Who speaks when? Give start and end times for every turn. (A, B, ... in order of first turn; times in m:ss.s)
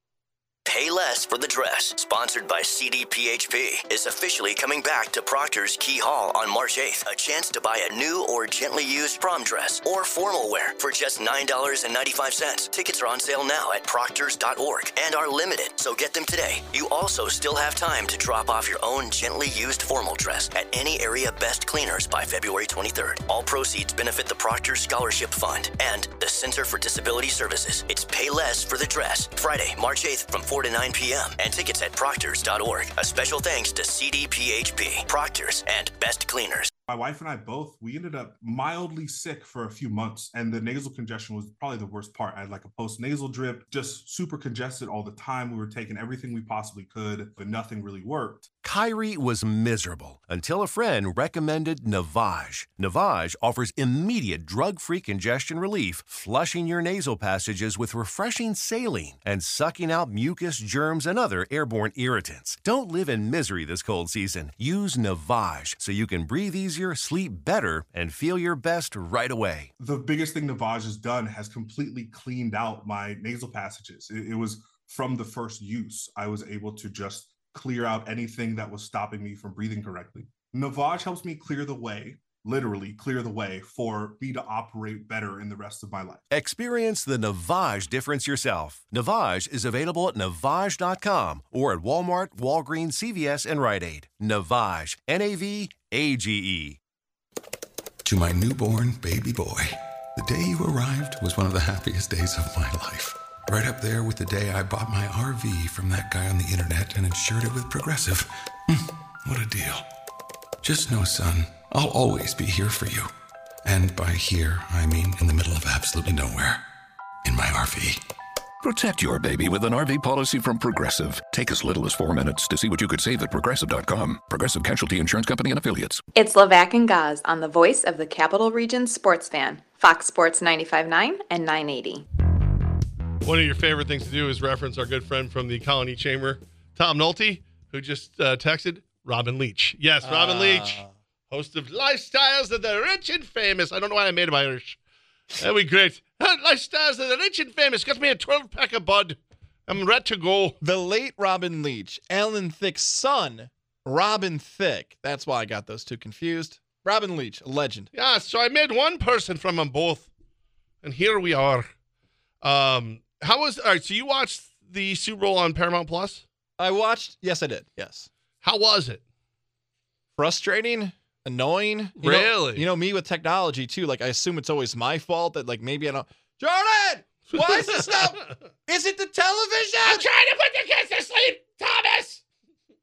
0:00.7-0:36.7 A
0:36.9-0:48.5 B
0:48.6-1:09.7 C
1:09.8-1:26.3 B
1:26.3-1:36.8 C
1:38.0-1:49.8 D
1:50.6-1:53.1 D
1:53.6-1:56.6 D
1:57.2-1:58.0 D
1:58.6-2:06.0 E
2:06.2-2:12.0 F
2:13.2-2:24.8 G
2:20.0-2:20.9 H
2:25.4-2:30.6 G
2:30.6-2:37.9 H
2:37.9-2:40.1 G
2:40.8-2:41.7 G
2:42.4-2:46.2 G
2:46.6-2:48.1 H
2:48.4-2:49.0 G
2:50.2-3:00.0 H
2:52.0-2:52.7 G
2:57.3-2:58.3 G
2:59.8-3:02.2 G